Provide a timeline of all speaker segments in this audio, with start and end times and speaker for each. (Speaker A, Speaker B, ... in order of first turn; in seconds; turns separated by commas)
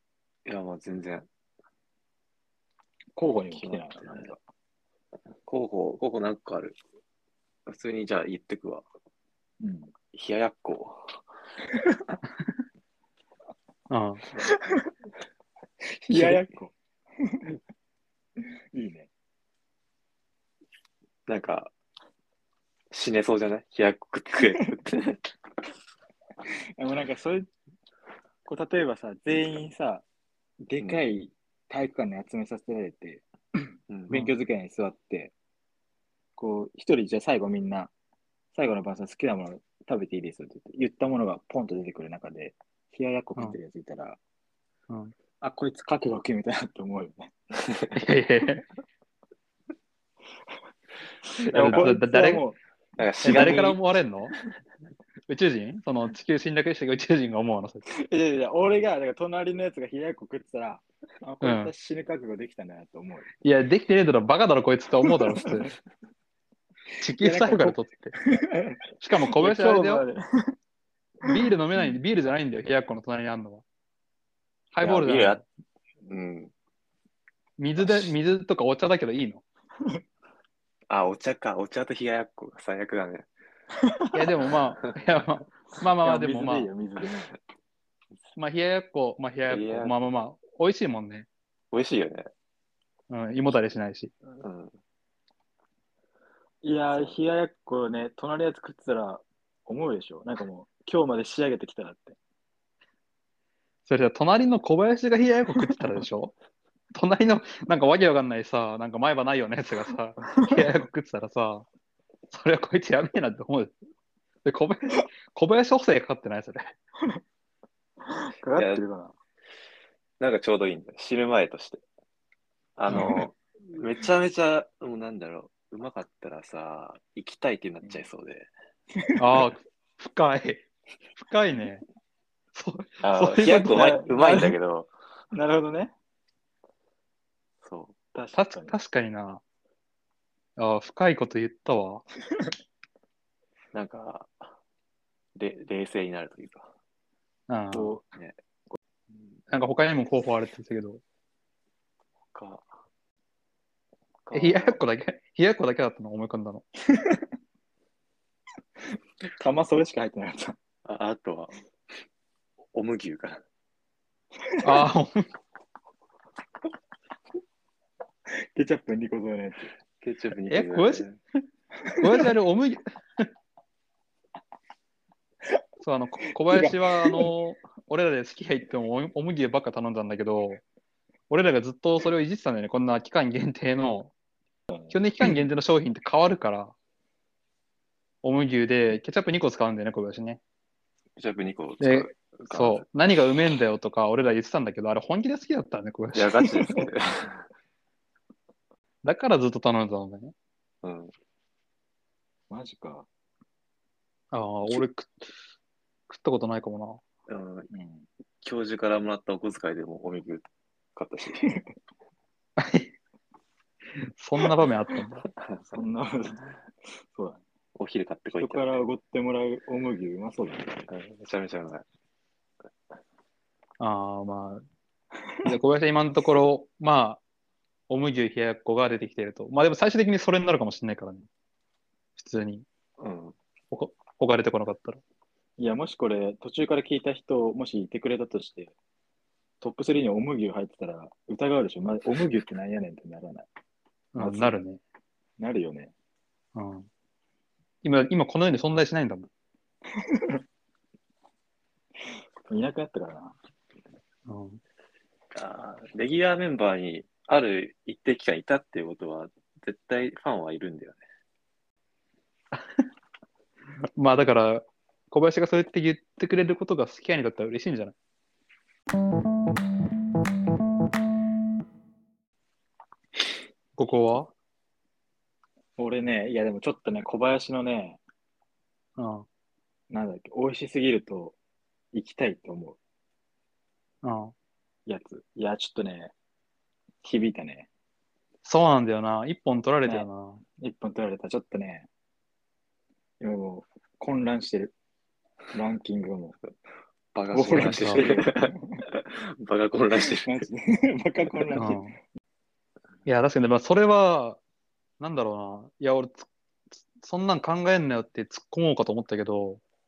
Speaker A: 0.5-1.3, Speaker B: 3.2-4.4, Speaker A: 3.5-4.3, Speaker A: 5.5-6.8, Speaker A: 7.7-8.8, Speaker B: 9.6-9.9, Speaker A: 10.1-11.2, Speaker B: 11.8-12.1, Speaker C: 13.9-14.3, Speaker B: 14.4-14.9, Speaker B: 16.0-17.5, Speaker C: 16.1-16.4, Speaker B: 18.4-19.1, Speaker A: 21.3-21.7, Speaker A: 22.9-25.3, Speaker B: 24.4-24.6, Speaker B: 26.8-27.5, Speaker B: 28.5-30.1, Speaker B: 30.6-35.3, Speaker A: 33.9-34.2, Speaker B: 36.4-37.9, Speaker B: 38.5-44.2, Speaker C: 44.9-45.1, Speaker B: 45.4-47.3, Speaker C: 47.9-48.6, Speaker B: 51.3-52.6, Speaker C: 51.5-52.4, Speaker A: 51.5-52.0, Speaker A: 53.0-53.8, Speaker C: 53.2-54.4, Speaker B: 53.2-53.8, Speaker C: 55.3-57.8, Speaker B: 57.9-63.3, Speaker C: 61.4-61.7, Speaker C: 63.4-65.7, Speaker B: 65.0-65.7, Speaker C: 67.0-68.2, Speaker B: 67.0-68.8, Speaker C: 69.0-70.0, Speaker B: 69.3-70.5, Speaker C: 71.2-73.6, Speaker C: 74.7-75.4, Speaker A: 74.8-75.4, Speaker A: 76.0-76.5, Speaker C: 77.6-79.4, Speaker A: 77.8-78.1, Speaker A: 80.9-83.3, Speaker B: 83.8-84.2, Speaker C: 84.1-86.7, Speaker B: 86.0-87.3, Speaker C: 88.4-91.3, Speaker A: 89.5-89.9, Speaker A: 91.7-92.3, Speaker C: 93.1-94.1, Speaker A: 94.4-94.7, Speaker B: 96.6-102.2, Speaker C: 103.9-106.3, Speaker C: 106.9-111.7, Speaker B: 110.4-110.7, Speaker C: 112.3-113.8, Speaker C: 114.5-116.7, Speaker B: 118.0-119.1, Speaker A: 118.6-118.8, Speaker A: 120.2-121.8, Speaker A: 122.8-128.5, Speaker B: 122.9-123.3, Speaker C: 129.2-130.7, Speaker C: 131.2-131.8, Speaker C: 132.5-133.8, Speaker A: 133.0-134.9, Speaker B: 133.4-134.6, Speaker B: 135.3-135.9, Speaker A: 137.6-137.9, Speaker B: 138.2-138.8, Speaker C: 138.3-139.4, Speaker C: 140.6-142.1, Speaker A: 143.7-144.6, Speaker A: 145.3-146.7, Speaker C: 147.5-148.0, Speaker A: 148.0-148.4, Speaker A: 149.1-149.4, Speaker C: 149.5-151.0, Speaker A: 152.3-152.7, Speaker A: 154.2-154.8, Speaker C: 154.3-156.7, Speaker B: 156.9-157.2, Speaker B: 159.2-160.6, Speaker A: 160.8-161.6, Speaker A: 162.7-163.4, Speaker B: 164.5-164.8, Speaker C: 164.6-165.2, Speaker B: 168.3-169.7, Speaker A: 170.0-171.2, Speaker C: 170.5-171.1, Speaker B: 171.9-172.3, Speaker C: 172.0-173.3, Speaker C: 175.8-180.6, Speaker B: 176.5-177.3, Speaker C: 181.3-184.1, Speaker C: 184.9-186.7, Speaker C: 188.2-190.4, Speaker A: 191.2-192.8, Speaker C: 191.8-196.4, Speaker A: 196.1-197.4, Speaker B: 196.5-196.9, Speaker C: 199.0-200.3, Speaker A: 200.8-201.1, Speaker B: 202.5-203.1, Speaker C: 204.3-205.3, Speaker C: 206.1-207.0, Speaker A: 207.3-207.7, Speaker B: 207.7-208.1, Speaker A: 208.4-210.4, Speaker A: 211.0-211.6, Speaker C: 212.6-212.9, Speaker C: 214.0-215.3, Speaker A: 215.4-215.8, Speaker B: 215.7-216.4, Speaker B: 217.1-217.4, Speaker A: 217.8-218.9, Speaker B: 218.4-220.9, Speaker A: 220.9-221.8, Speaker C: 223.8-224.6, Speaker C: 225.4-227.2, Speaker C: 227.9-231.3, Speaker C: 232.2-232.7, Speaker A: 233.0-233.4, Speaker C: 233.7-235.0, Speaker B: 235.6-238.7, Speaker B: 239.6-243.5, Speaker C: 244.1-244.8, Speaker B: 244.2-244.6, Speaker B: 245.4-245.9, Speaker C: 246.6-246.9, Speaker C: 247.8-249.3, Speaker B: 250.0-250.4, Speaker B: 252.5-253.4, Speaker C: 254.3-254.6, Speaker A: 255.3-261.0, Speaker C: 264.0-267.9, Speaker C: 273.8-274.3, Speaker B: 275.8-278.0, Speaker C: 279.0-279.3, Speaker B: 279.9-281.4, Speaker B: 281.9-282.8, Speaker C: 284.0-284.3, Speaker B: 284.9-286.1, Speaker B: 287.0-287.7, Speaker C: 288.4-290.4, Speaker B: 289.9-291.9, Speaker B: 293.2-294.7, Speaker B: 295.5-296.4, Speaker A: 297.1-300.3, Speaker B: 297.3-298.8, Speaker C: 297.6-298.1, Speaker B: 300.0-301.8, Speaker C: 301.6-302.0, Speaker C: 303.1-304.4, Speaker C: 305.0-309.6